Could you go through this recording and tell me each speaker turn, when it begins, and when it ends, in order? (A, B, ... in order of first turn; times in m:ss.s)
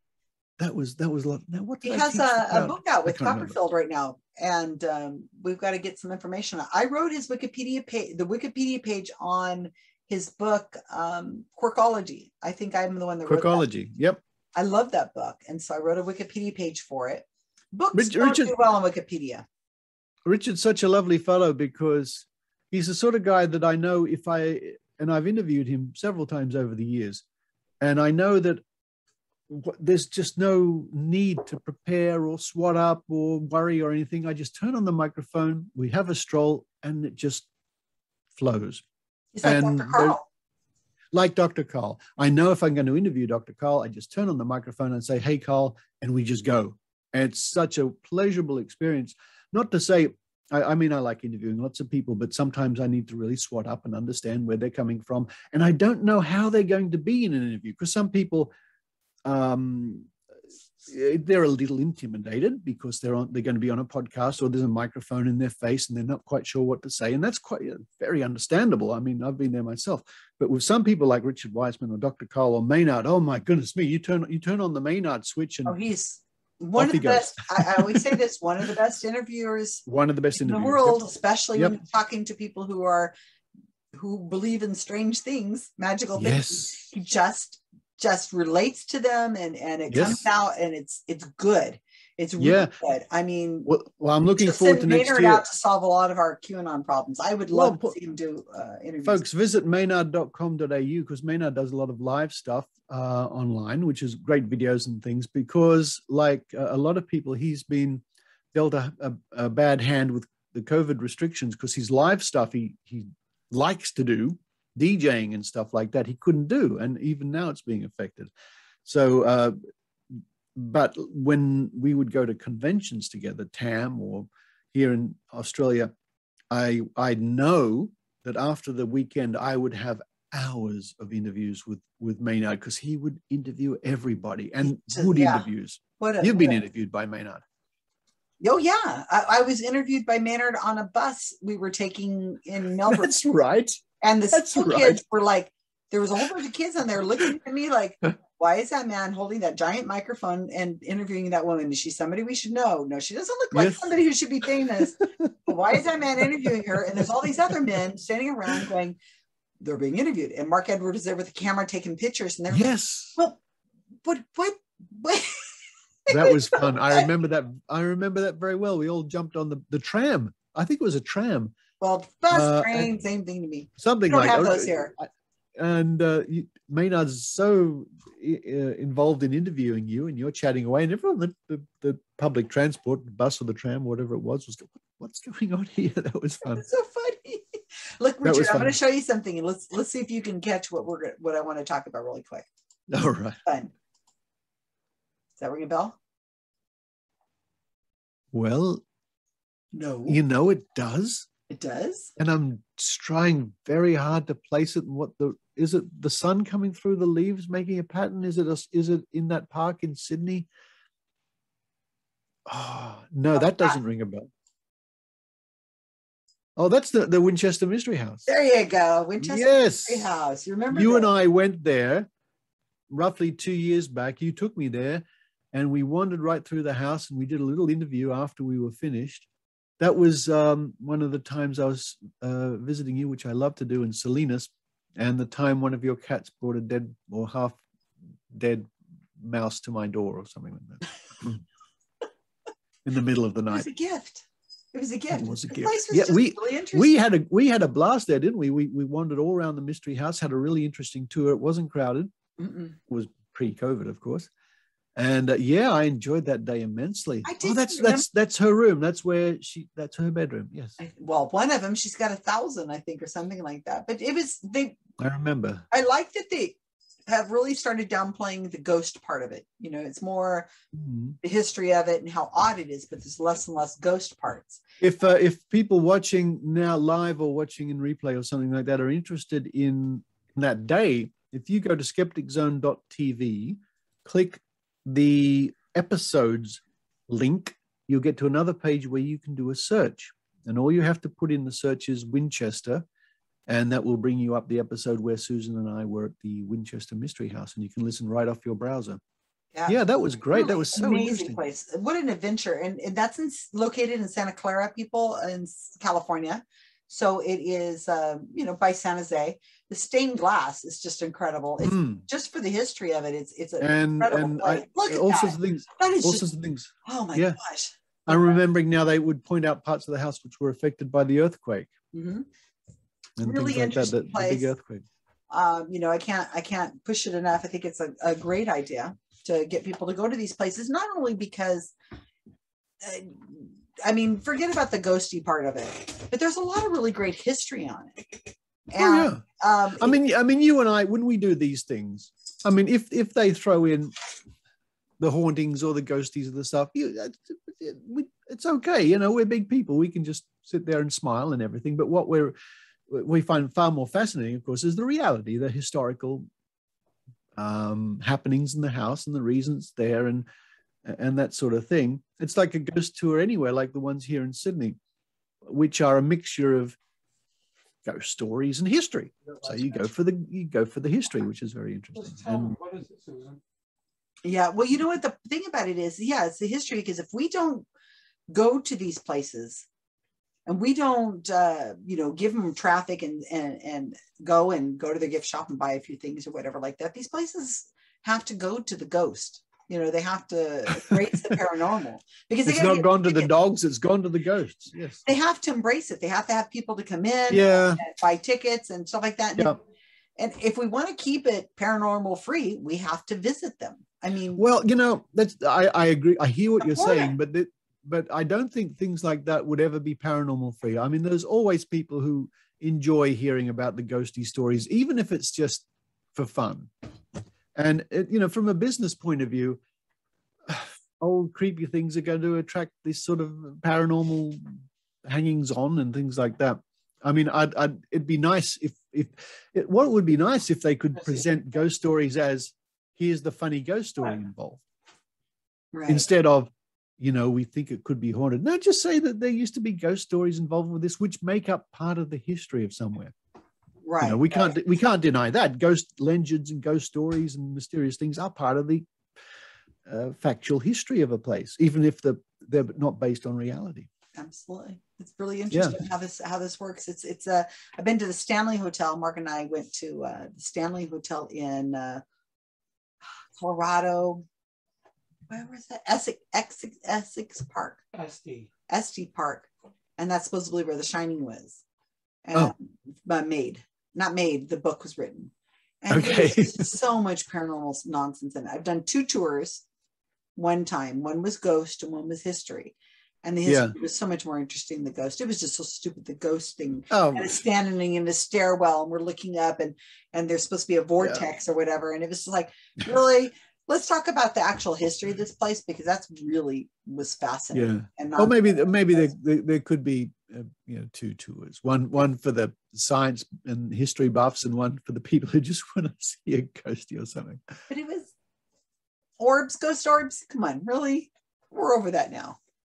0:00.6-0:03.6 A
0:01.8-0:13.7 B
0:13.3-0:14.2 A
0:14.6-0:19.5 B
0:17.9-0:18.5 A
0:20.3-0:27.2 A
0:27.8-0:28.6 A
0:29.5-0:37.5 A
0:38.3-0:38.8 A
0:39.3-0:40.2 B
0:39.4-0:40.2 A
0:41.1-0:58.5 A
0:59.2-1:00.1 A
1:00.8-1:15.8 A
1:15.7-1:19.8 B
1:16.8-1:18.2 A
1:19.9-1:21.8 A
1:20.4-1:23.1 B
1:23.9-1:33.7 B
1:26.2-1:26.8 A
1:29.9-1:30.2 A
1:32.4-1:32.7 A
1:33.7-1:35.5 A
1:34.4-1:39.2 B
1:37.5-1:38.0 A
1:39.0-1:48.0 A
1:48.5-1:58.3 A
1:58.8-1:59.6 A
2:00.1-2:05.9 A
2:06.5-2:17.4 A
2:14.7-2:15.5 B
2:16.0-2:16.6 B
2:18.4-2:23.3 B
2:22.9-2:23.8 A
2:24.0-2:39.0 B
2:24.3-2:25.0 A
2:33.5-2:33.9 A
2:35.0-2:35.3 A
2:36.4-2:37.2 A
2:39.6-2:43.4 B
2:42.5-2:43.2 A
2:44.0-2:45.4 B
2:46.1-2:47.1 B
2:46.1-2:51.6 A
2:51.8-2:54.9 B
2:52.3-2:52.9 A
2:53.8-3:06.6 A
3:06.4-3:12.5 B
3:08.2-3:08.8 A
3:12.9-3:13.4 A
3:13.4-3:13.7 B
3:15.4-3:16.0 B
3:18.3-3:18.8 A
3:19.7-3:20.2 B
3:20.1-3:21.3 A
3:21.5-3:22.1 B
3:22.2-3:30.5 A
3:32.5-3:34.3 A
3:33.3-3:33.8 B
3:36.6-3:38.3 A
3:38.3-3:41.1 B
3:39.2-3:42.1 A
3:42.9-3:49.3 A
3:49.8-3:57.6 A
3:58.3-4:01.4 A
4:02.8-4:03.7 A
4:03.5-4:06.9 B
4:05.1-4:12.1 A
4:12.4-4:12.8 B
4:12.9-4:14.3 A
4:15.0-4:20.8 A
4:17.2-4:18.1 B
4:20.8-4:24.8 B
4:25.0-4:25.6 A
4:25.7-4:26.6 B
4:27.1-4:30.5 B
4:30.7-4:31.2 A
4:31.2-4:34.6 B
4:34.8-4:52.8 A
4:53.5-4:59.0 A
4:59.6-4:59.8 B
4:59.7-5:01.4 A
5:00.3-5:16.3 B
5:11.6-5:12.0 A
5:13.6-5:17.4 A
5:16.8-5:18.4 B
5:18.1-5:21.7 A
5:21.9-5:22.3 B
5:23.2-5:24.9 A
5:23.2-5:24.5 B
5:25.3-5:31.7 B
5:32.8-5:40.0 B
5:38.8-5:39.2 A
5:39.8-5:43.9 A
5:45.0-5:52.3 A
5:52.9-5:56.3 A
5:57.4-6:00.2 A
6:00.8-6:04.8 A
6:05.4-6:06.8 A
6:07.8-6:12.6 A
6:09.4-6:09.8 C
6:12.0-6:13.4 C
6:14.2-6:17.7 B
6:18.3-6:19.7 B
6:20.5-6:33.3 B
6:32.4-6:35.1 A
6:35.0-6:39.6 B
6:37.3-6:37.8 A
6:40.2-6:44.4 B
6:44.4-6:56.7 A
6:46.6-6:47.2 B
6:57.6-6:59.6 A
7:00.5-7:04.4 A
7:05.1-7:14.6 A
7:15.7-7:16.1 B
7:15.9-7:23.1 A
7:23.8-7:24.5 B
7:24.0-7:28.9 A
7:29.9-7:33.9 A
7:34.2-7:42.0 B
7:35.5-7:35.8 A
7:43.4-7:44.2 B
7:45.3-7:47.8 B
7:47.9-7:48.5 C
7:48.7-7:51.6 B
7:52.2-7:59.6 B
7:55.9-7:56.7 A
8:00.4-8:19.1 B
8:03.5-8:03.7 A
8:06.9-8:07.4 A
8:11.0-8:11.2 A
8:17.5-8:27.5 A
8:27.7-8:28.1 B
8:29.2-8:32.4 B